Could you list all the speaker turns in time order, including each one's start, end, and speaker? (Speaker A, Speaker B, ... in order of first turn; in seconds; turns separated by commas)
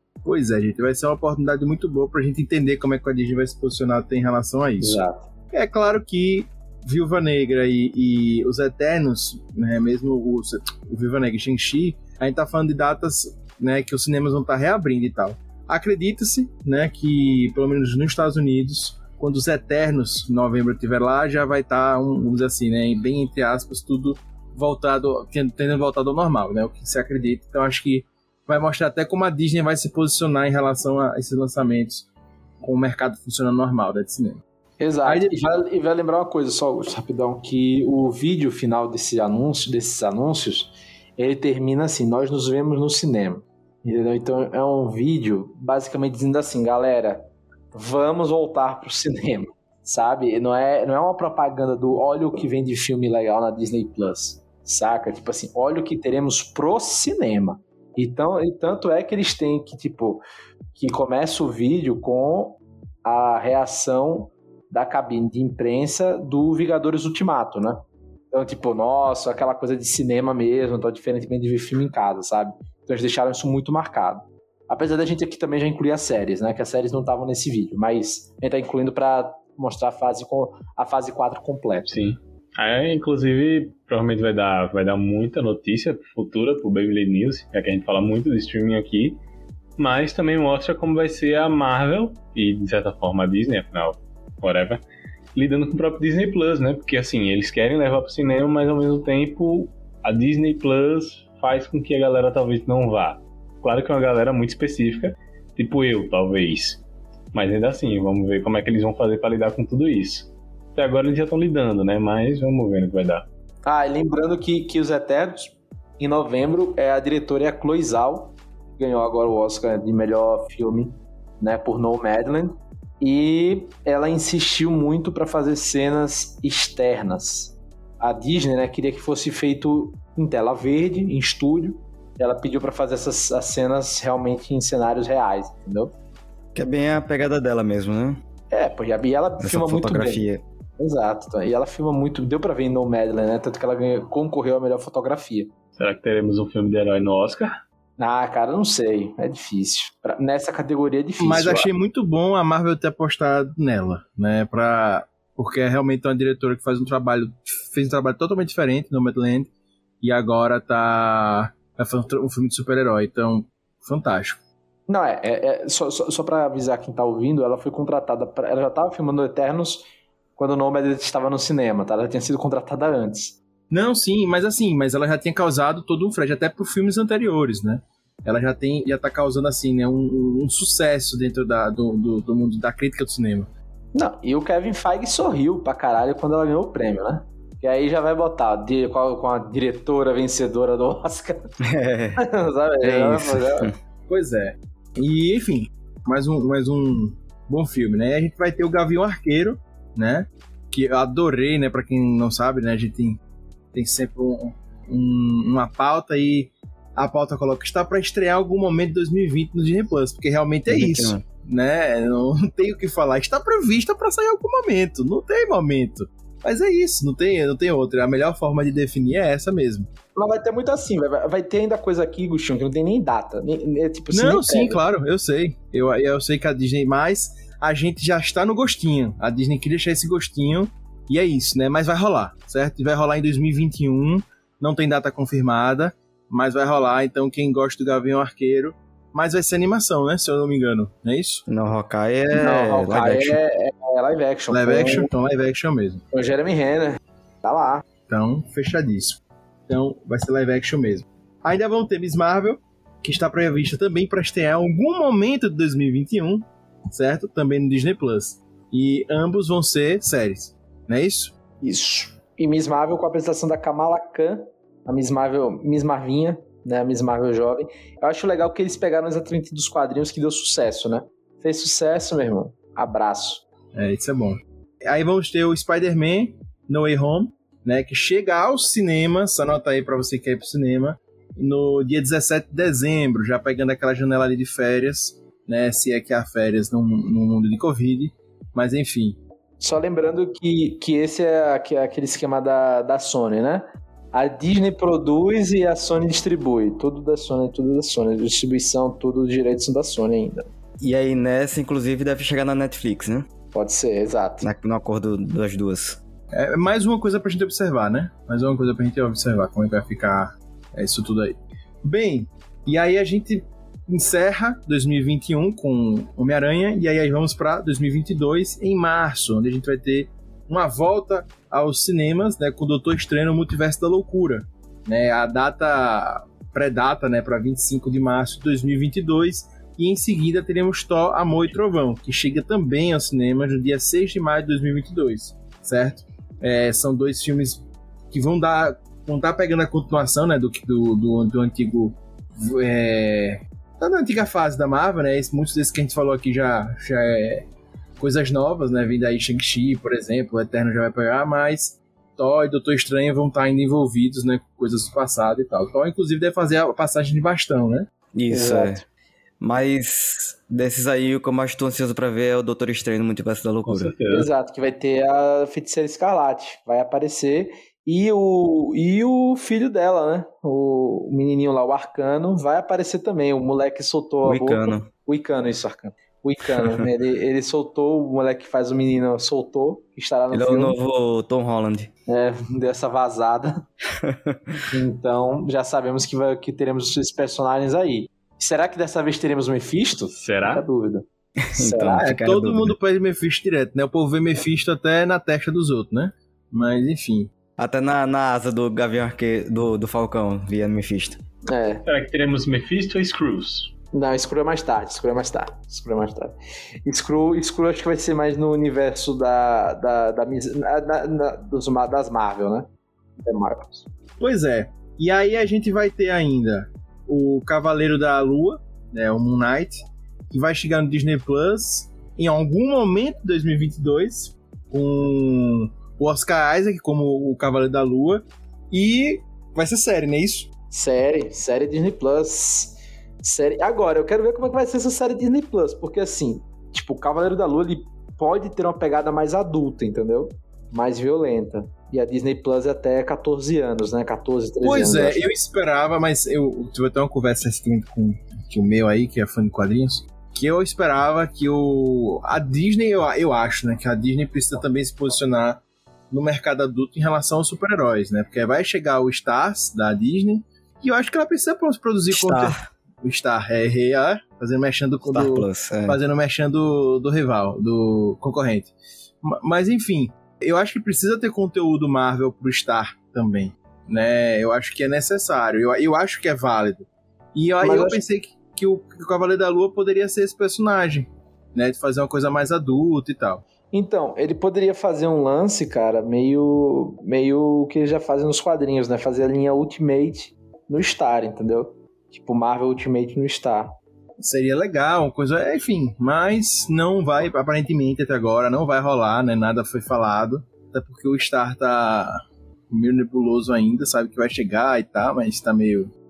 Speaker A: 0.2-32.1, Speaker B: 4.8-5.3, Speaker A: 32.6-34.4, Speaker B: 34.8-60.2, Speaker A: 35.0-35.5, Speaker B: 60.7-82.0, Speaker C: 81.9-89.2, Speaker C: 89.8-94.8, Speaker C: 95.3-106.8, Speaker C: 107.3-113.3, Speaker B: 113.6-135.9, Speaker D: 136.5-138.2, Speaker B: 138.5-140.2, Speaker D: 139.4-140.4, Speaker B: 140.8-145.5, Speaker C: 145.8-147.6, Speaker B: 148.0-151.7, Speaker A: 151.2-164.4, Speaker B: 164.9-169.8, Speaker B: 170.4-173.4, Speaker A: 173.7-183.5, Speaker B: 183.9-191.5, Speaker D: 191.6-192.2, Speaker B: 192.2-193.7, Speaker D: 192.8-193.7, Speaker A: 194.1-203.2, Speaker A: 203.7-219.9, Speaker D: 210.7-211.2, Speaker B: 220.1-224.8, Speaker A: 224.1-241.4, Speaker D: 241.5-243.4, Speaker B: 242.3-245.1, Speaker A: 244.5-246.0, Speaker B: 246.1-247.8, Speaker A: 248.1-261.4, Speaker B: 261.6-273.4, Speaker A: 273.7-289.2, Speaker B: 289.6-300.5, Speaker D: 300.8-303.3, Speaker B: 303.5-304.5, Speaker D: 304.4-306.0, Speaker A: 306.3-347.4, Speaker A: 348.0-357.9, Speaker D: 358.1-358.8, Speaker B: 358.3-358.8, Speaker D: 359.4-363.9, Speaker C: 363.6-364.3, Speaker B: 364.1-380.8, Speaker D: 374.2-374.9, Speaker D: 380.3-381.9, Speaker B: 382.1-383.6, Speaker D: 384.0-384.6, Speaker B: 384.7-392.1, Speaker C: 390.1-390.6, Speaker D: 391.4-392.8, Speaker A: 392.0-397.3, Speaker D: 397.6-401.2, Speaker B: 401.5-401.8, Speaker C: 401.8-403.7, Speaker B: 403.9-406.3, Speaker B: 406.9-412.7, Speaker B: 413.2-413.9, Speaker A: 414.2-430.5, Speaker B: 430.7-445.2, Speaker A: 444.6-483.4, Speaker D: 462.1-462.6, Speaker D: 465.0-466.0, Speaker B: 477.6-478.0, Speaker B: 483.7-493.7, Speaker A: 494.2-505.9